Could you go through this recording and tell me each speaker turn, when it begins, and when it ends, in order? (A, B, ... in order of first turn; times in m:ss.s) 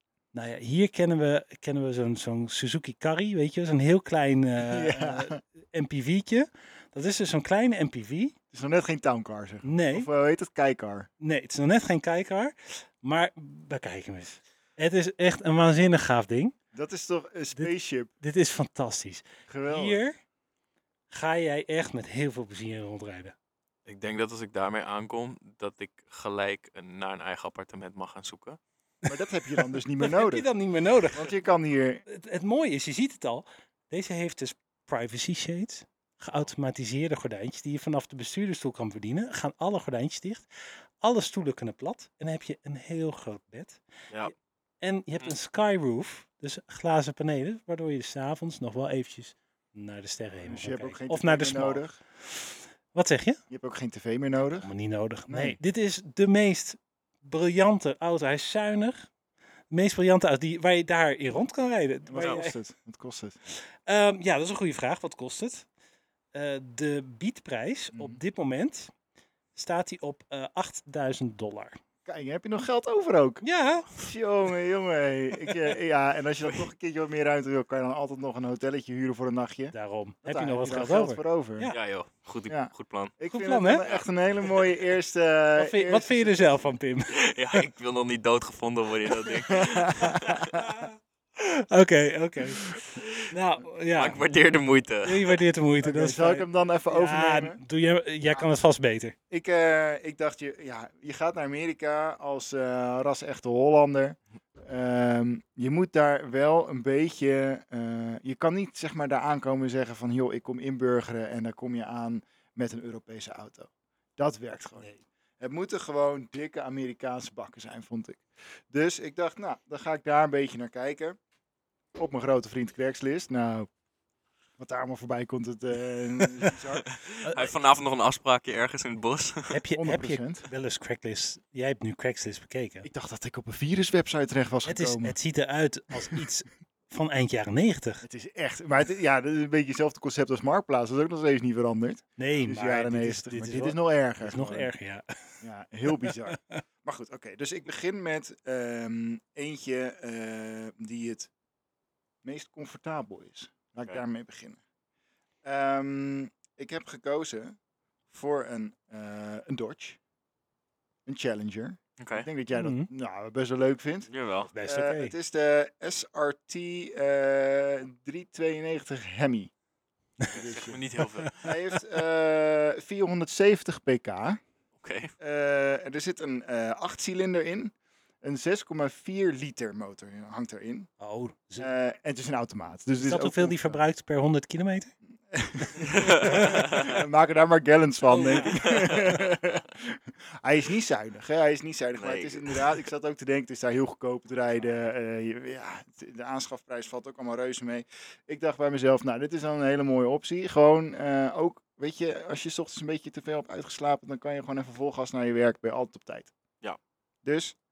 0:00.3-0:08.4 A
0:04.6-0:05.4 B
0:08.5-0:11.1 B
0:09.6-0:10.1 A
0:11.2-0:16.6 A
0:16.7-0:18.1 B
0:17.6-0:20.2 A
0:19.5-0:20.0 B
0:21.1-0:23.4 A
0:23.9-0:28.6 C
0:29.1-0:31.2 A
0:29.1-0:30.5 B
0:31.1-0:32.0 B
0:32.1-0:40.5 A
0:41.0-0:53.4 A
0:50.4-0:52.0 B
0:53.5-0:54.7 B
0:54.6-0:59.1 A
0:55.3-0:55.6 B
0:59.7-1:02.6 A
1:02.1-1:03.4 B
1:02.2-1:02.4 C
1:03.5-1:05.7 A
1:06.3-1:08.9 A
1:07.9-1:08.2 B
1:09.6-1:11.8 A
1:12.1-1:21.7 B
1:13.4-1:13.9 A
1:19.7-1:21.8 A
1:21.7-1:23.2 C
1:22.5-1:26.7 B
1:23.3-1:23.8 A
1:23.8-1:24.8 C
1:25.6-1:27.7 A
1:27.1-1:30.6 C
1:29.5-1:30.6 B
1:30.0-1:32.7 A
1:32.8-1:33.3 C
1:33.3-1:34.2 A
1:34.0-1:35.4 C
1:35.0-1:39.2 A
1:35.8-1:37.6 B
1:39.3-1:54.9 B
1:54.8-1:55.0 A
1:55.4-2:01.2 B
2:02.0-2:03.7 B
2:04.6-2:06.9 B
2:06.8-2:09.6 C
2:07.2-2:07.5 A
2:09.5-2:12.9 A
2:09.8-2:10.4 B
2:12.8-2:15.2 B
2:14.6-2:18.0 A
2:18.0-2:24.7 B
2:22.2-2:26.6 A
2:25.4-2:31.3 B
2:32.2-2:34.6 B
2:35.4-2:37.6 B
2:38.1-2:40.0 B
2:41.1-2:49.5 B
2:42.0-2:42.3 C
2:42.5-2:42.9 A
2:44.1-2:44.5 C
2:44.5-2:45.1 A
2:50.3-2:51.6 C
2:50.3-2:50.8 B
2:51.4-2:54.4 B
2:54.8-2:55.1 C
2:55.2-3:00.9 B
3:01.0-3:01.7 A
3:01.6-3:03.8 B
3:03.0-3:04.9 A
3:05.3-3:26.3 B
3:05.9-3:06.9 C
3:06.1-3:06.8 A
3:08.1-3:08.7 A
3:08.5-3:09.4 C
3:12.0-3:12.8 C
3:27.2-3:27.6 B